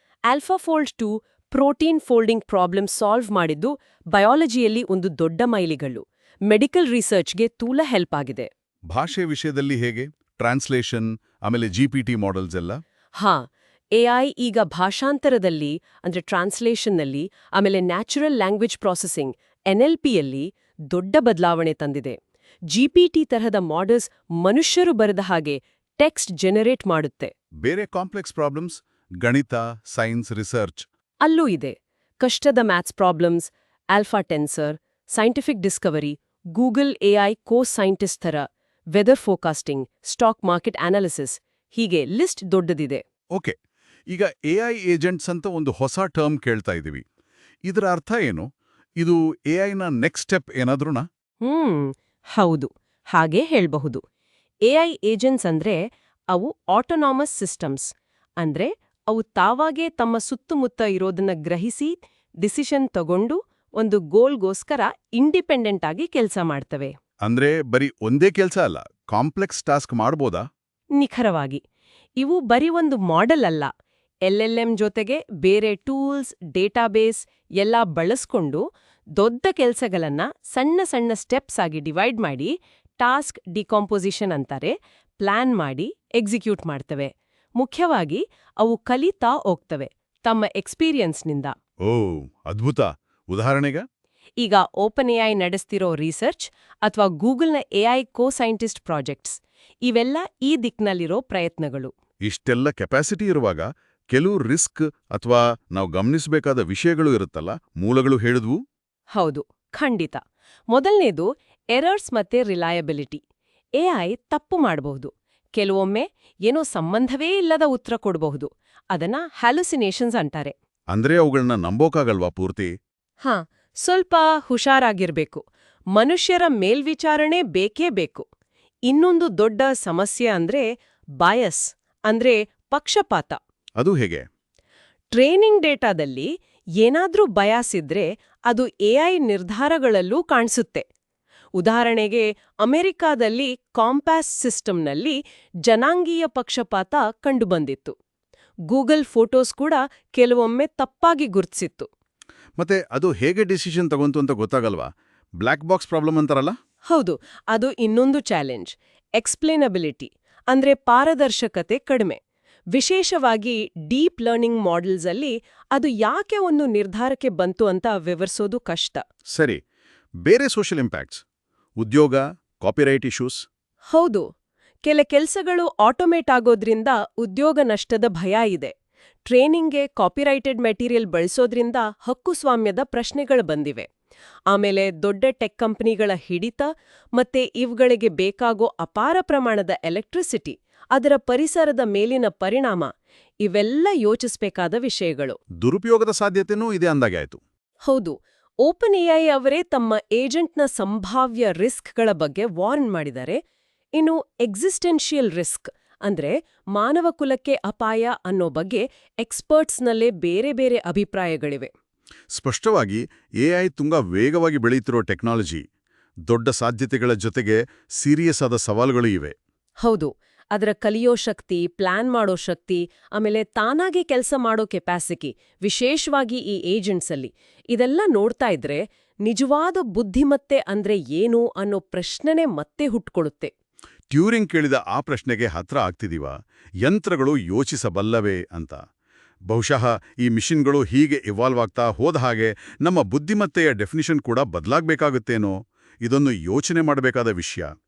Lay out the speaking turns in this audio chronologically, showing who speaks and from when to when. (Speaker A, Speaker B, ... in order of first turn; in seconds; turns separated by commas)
Speaker A: 0.3-8.5, Speaker B: 8.9-12.8, Speaker A: 13.2-13.4, Speaker A: 13.9-22.2, Speaker A: 22.7-27.3, Speaker B: 27.6-30.9, Speaker A: 31.2-43.0, Speaker B: 44.1-47.0, Speaker B: 47.7-48.5, Speaker B: 49.0-51.1, Speaker A: 51.4-54.0, Speaker A: 54.7-55.8, Speaker A: 56.3-67.0, Speaker B: 67.2-70.5, Speaker A: 71.0-71.6, Speaker A: 72.2-73.7, Speaker A: 74.3-78.6, Speaker A: 79.2-91.5, Speaker B: 91.9-93.8, Speaker A: 94.4-101.9, Speaker B: 102.3-108.6, Speaker A: 109.2-110.2, Speaker A: 110.7-113.2, Speaker A: 113.8-120.5, Speaker B: 120.9-122.7, Speaker A: 123.2-125.4, Speaker A: 126.0-128.3, Speaker A: 128.9-130.7, Speaker A: 131.2-133.4, Speaker B: 133.8-134.2, Speaker A: 135.1-136.3, Speaker A: 136.8-140.8, Speaker A: 141.6-147.9, Speaker A: 148.7-151.9, Speaker B: 152.6-154.9, Speaker B: 155.4-156.6, Speaker A: 156.9-162.2, Speaker A: 162.7-169.0, Speaker B: 169.3-169.6, Speaker B: 170.2-171.2, Speaker B: 171.8-173.5, Speaker A: 173.9-174.2, Speaker A: 174.8-178.7, Speaker A: 179.2-183.9, Speaker A: 184.5-192.9, Speaker A: 193.4-195.4, Speaker B: 195.6-197.4, Speaker A: 197.9-203.4, Speaker A: 204.0-211.7, Speaker B: 212.3-215.6, Speaker B: 216.3-219.3, Speaker A: 219.8-233.5, Speaker B: 234.1-236.3, Speaker B: 236.8-238.8, Speaker B: 239.5-247.7